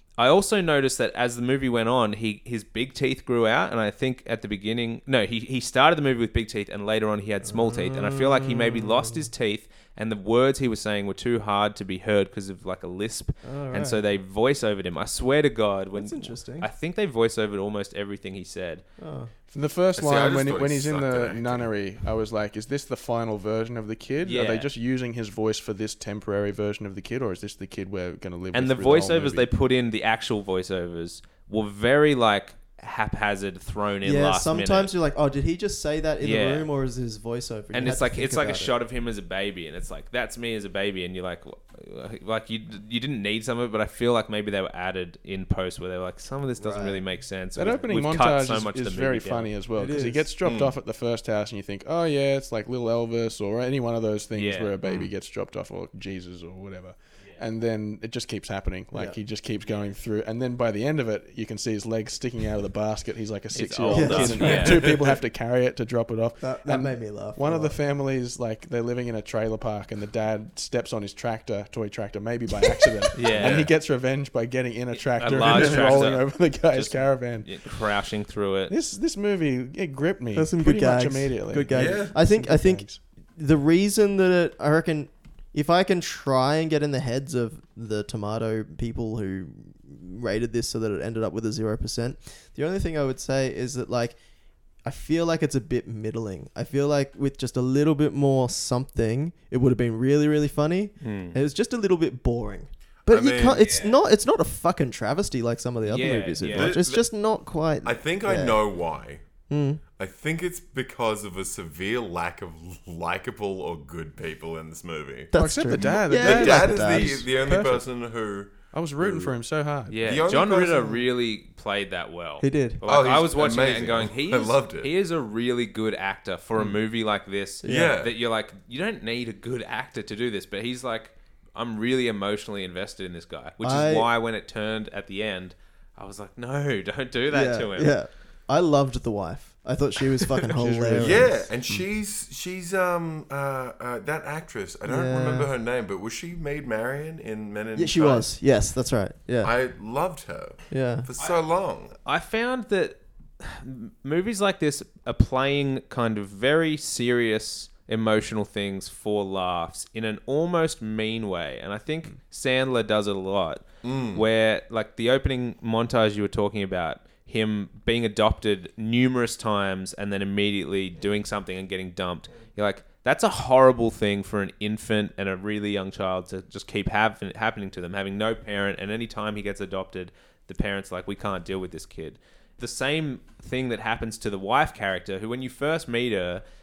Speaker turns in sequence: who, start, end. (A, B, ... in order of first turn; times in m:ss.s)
0:00.2-0:18.8 A
0:07.4-0:09.3 B
0:13.4-0:14.0 B
0:15.9-0:16.7 B
0:19.0-0:19.3 B
0:19.5-0:29.5 C
0:20.0-0:21.7 D
0:24.2-0:24.7 A
0:28.5-0:34.9 A
0:34.0-0:38.7 B
0:36.2-0:36.7 A
0:37.7-0:49.5 A
0:46.6-0:47.0 B
0:47.6-1:17.7 C
0:49.8-0:50.3 B
0:50.4-0:50.7 D
0:54.3-0:54.8 A
0:58.9-0:59.2 B
1:03.5-1:04.8 A
1:03.9-1:04.8 B
1:06.4-1:07.8 B
1:12.6-1:13.0 B
1:13.1-1:13.6 A
1:13.4-1:13.7 D
1:14.9-1:18.7 A
1:18.7-1:23.0 C
1:20.3-1:34.2 B
1:21.7-1:22.2 D
1:34.8-1:48.6 B
1:41.0-1:41.4 A
1:43.1-1:43.9 D
1:45.8-1:46.8 A
1:46.5-1:47.0 D
1:47.8-1:49.2 D
1:49.5-1:49.8 B
1:50.0-1:59.3 D
1:55.3-1:57.3 B
1:55.3-1:57.8 C
1:58.7-2:00.0 C
1:59.9-2:18.0 A
2:00.0-2:01.0 D
2:02.4-2:02.8 B
2:02.8-2:04.9 D
2:07.6-2:08.0 B
2:07.6-2:08.1 D
2:13.6-2:14.1 B
2:17.3-2:21.5 B
2:20.6-2:21.8 C
2:21.0-2:28.3 D
2:24.8-2:25.5 B
2:27.7-2:29.5 B
2:29.4-2:32.0 D
2:30.7-2:31.1 B
2:32.0-3:06.4 A
2:43.8-2:44.2 D